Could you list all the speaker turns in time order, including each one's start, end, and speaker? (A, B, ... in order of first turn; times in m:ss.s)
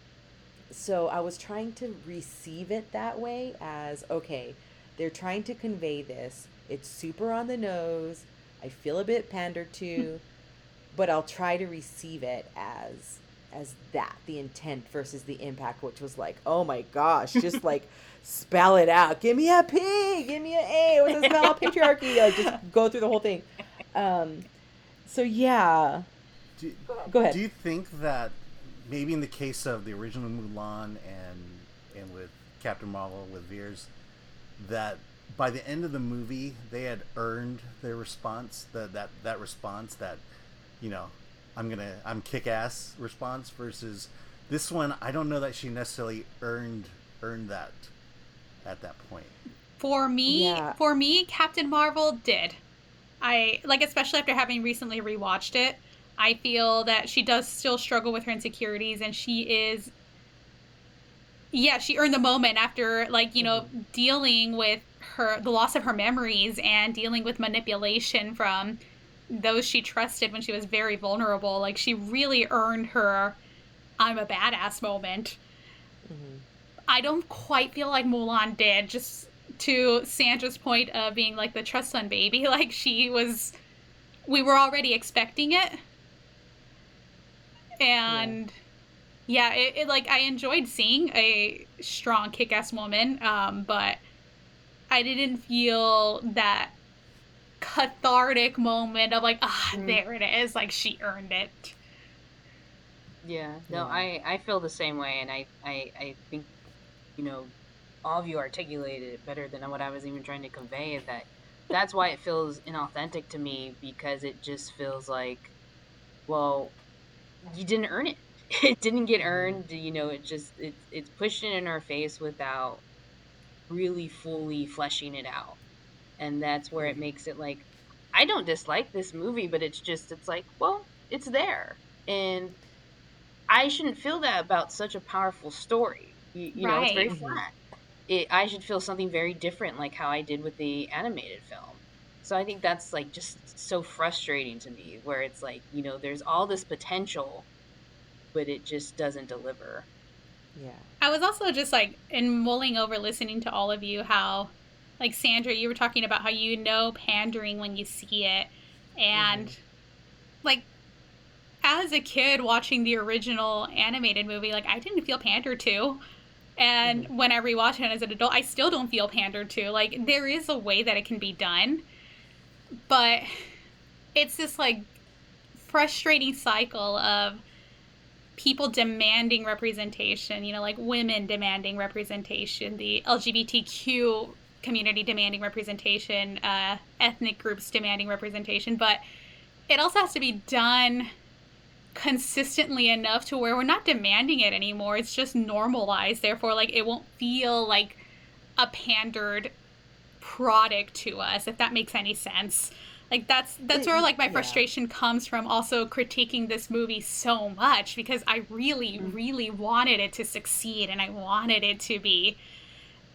0:00.7-0:10.2 A
0:10.9-0:24.4 A
0:21.3-0:21.7 B
0:25.0-0:26.1 A
0:26.6-0:33.9 C
0:27.0-0:27.4 A
0:34.6-0:40.2 C
0:40.8-0:47.9 C
0:48.6-0:49.4 C
0:49.8-0:52.6 D
0:50.3-0:50.8 A
0:53.2-0:59.9 D
1:01.5-1:08.8 D
1:03.4-1:03.7 A
1:09.3-1:13.4 D
1:14.0-1:15.4 D
1:16.0-1:16.4 A
1:16.9-1:23.5 D
1:24.3-1:25.8 D
1:27.8-1:28.5 D
1:28.1-1:28.4 A
1:29.3-1:34.0 D
1:34.9-1:36.7 D
1:37.6-1:41.8 D
1:39.7-1:40.0 B
1:43.2-1:46.5 B
1:43.7-1:44.1 A
1:47.2-1:47.5 B
1:48.0-1:55.5 B
1:56.3-1:56.8 B
1:57.4-2:02.8 B
1:59.2-1:59.6 A
2:03.7-2:05.6 B
2:06.2-2:12.6 B
2:06.8-2:07.0 A
2:13.5-2:17.5 B
2:16.6-2:17.2 D
2:17.1-2:17.4 A
2:18.1-2:27.5 B
2:28.3-2:29.9 B
2:30.6-2:30.9 A
2:31.0-2:39.6 D
2:39.1-2:39.6 A
2:41.6-2:46.0 D
2:46.6-2:51.8 D
2:46.8-2:47.1 A
2:52.9-2:53.5 D
2:54.1-2:54.8 D
2:55.6-2:57.4 D
2:58.4-3:09.0 D
3:09.7-3:11.1 D
3:11.9-3:18.0 D
3:18.6-3:19.5 D
3:20.2-3:32.4 D
3:23.7-3:24.6 A